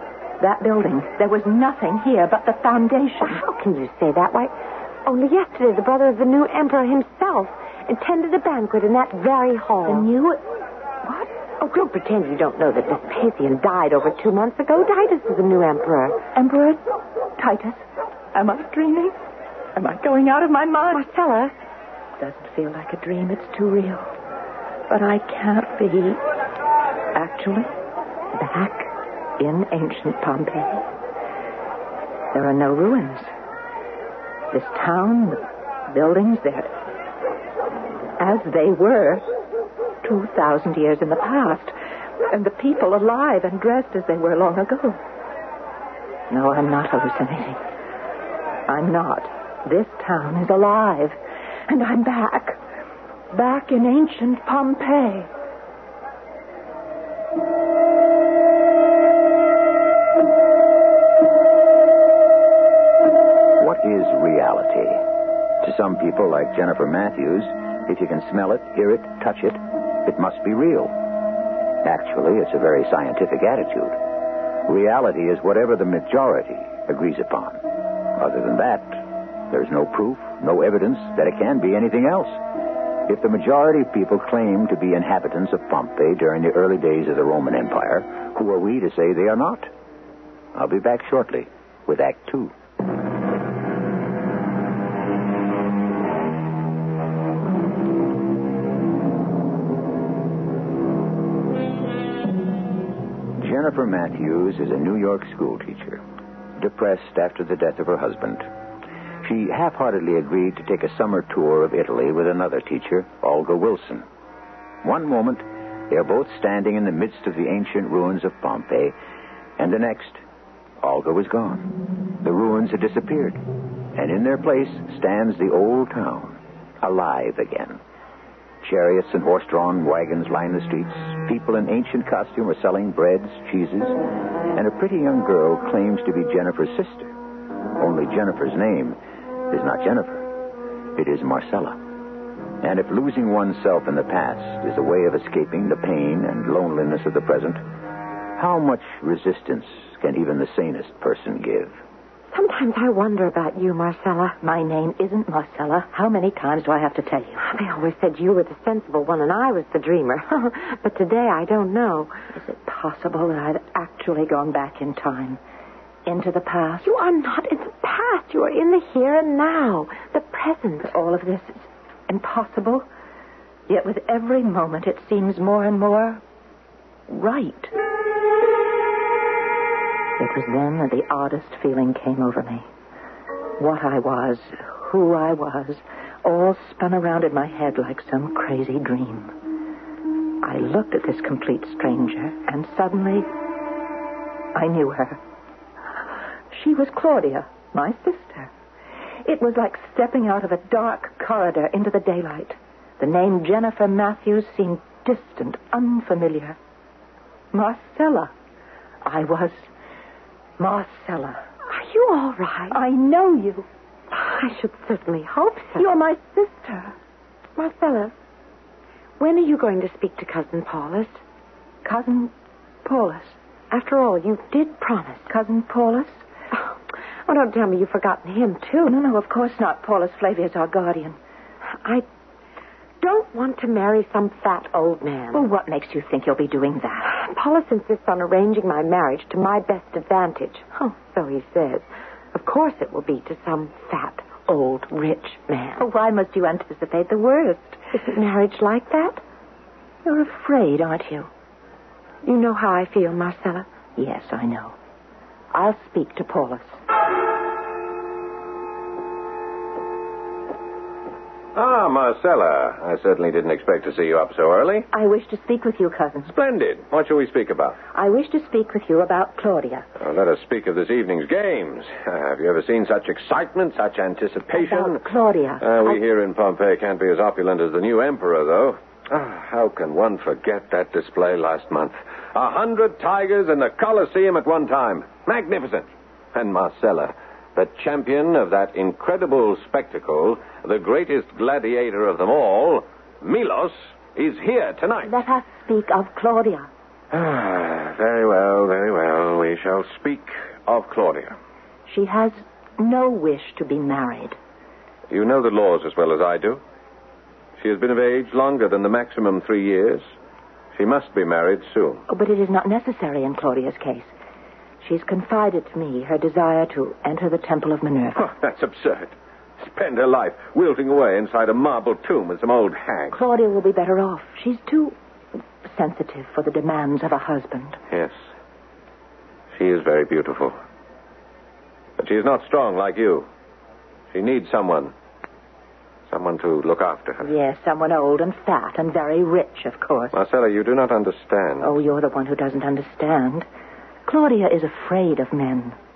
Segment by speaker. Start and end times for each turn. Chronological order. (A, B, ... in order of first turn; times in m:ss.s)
0:00.4-0:03.4 A
0:03.2-0:04.5 B
0:05.0-0:10.1 B
0:09.8-0:10.4 A
0:11.0-0:11.3 A
0:11.6-0:16.2 B
0:16.4-0:16.8 A
0:17.4-0:19.1 A
0:19.8-0:21.0 A
0:20.9-0:21.5 B
0:22.2-0:24.1 A
0:24.9-0:26.2 A
0:27.1-0:27.7 A
0:28.3-0:30.8 A
0:32.3-0:33.3 A
0:34.5-0:36.7 A
0:38.2-0:39.2 A
0:40.0-0:41.7 A
0:42.3-0:45.0 A
0:46.3-0:47.6 A
0:48.7-0:51.2 A
0:51.7-0:52.6 A
0:53.3-0:55.3 A
1:03.6-1:05.0 C
1:05.6-1:10.9 C
1:11.8-1:14.0 C
1:14.6-1:22.4 C
1:23.1-1:29.7 C
1:30.5-1:32.5 C
1:43.4-1:46.0 C
1:46.6-1:48.4 C
1:49.2-1:54.0 C
1:54.8-1:58.9 C
1:59.6-2:00.2 C
2:00.8-2:03.4 C
2:03.9-2:07.8 C
2:08.6-2:14.0 C
2:14.5-2:17.1 C
2:17.8-2:19.0 C
2:19.5-2:20.3 C
2:20.9-2:21.8 C
2:22.6-2:27.6 C
2:28.4-2:31.7 C
2:32.3-2:34.4 B
2:34.4-2:37.4 A
2:37.4-2:42.1 B
2:42.3-2:45.4 A
2:46.0-2:46.9 A
2:46.8-2:50.9 B
2:50.8-2:52.9 A
2:53.7-2:56.2 A
2:57.1-2:57.7 A
3:00.2-3:02.7 A
3:03.6-3:09.3 A
3:10.4-3:13.3 A
3:14.5-3:15.2 A
3:16.5-3:18.5 A
3:19.2-3:26.6 A
3:27.5-3:28.3 A
3:29.0-3:29.7 A
3:30.6-3:31.4 A
3:31.7-3:32.8 B
3:32.7-3:33.7 A
3:34.1-3:35.8 B
3:35.8-3:36.9 A
3:37.6-3:38.1 B
3:39.2-3:41.2 B
3:41.8-3:42.3 A
3:42.8-3:43.4 A
3:43.7-3:45.3 B
3:45.3-3:46.2 A
3:46.5-3:48.9 B
3:48.8-3:51.2 A
3:51.6-3:52.0 B
3:53.0-3:55.4 B
3:55.3-3:57.1 A
3:57.0-4:05.8 B
4:05.8-4:07.8 A
4:07.9-4:09.2 B
4:10.0-4:11.3 A
4:12.2-4:13.7 B
4:14.0-4:14.7 A
4:15.5-4:16.8 A
4:21.5-4:24.9 D
4:24.9-4:26.3 A
4:26.3-4:27.8 D
4:27.9-4:29.9 A
4:30.0-4:35.0 D
4:34.5-4:36.0 A
4:35.6-4:55.1 D
4:55.0-4:56.7 A
4:57.1-5:01.4 D
5:01.9-5:04.4 A
5:05.1-5:06.6 D
5:07.6-5:10.0 D
5:10.7-5:12.0 D
5:12.1-5:14.1 A
5:14.8-5:18.3 A
5:18.2-5:23.2 D
5:23.1-5:25.0 A
5:25.6-5:27.8 A
5:29.5-5:30.5 D
5:32.0-5:33.3 D
5:34.1-5:34.9 D
5:36.1-5:37.3 D
5:37.2-5:40.2 A
5:40.1-5:41.8 D
5:41.6-5:43.4 A
5:44.0-5:45.8 A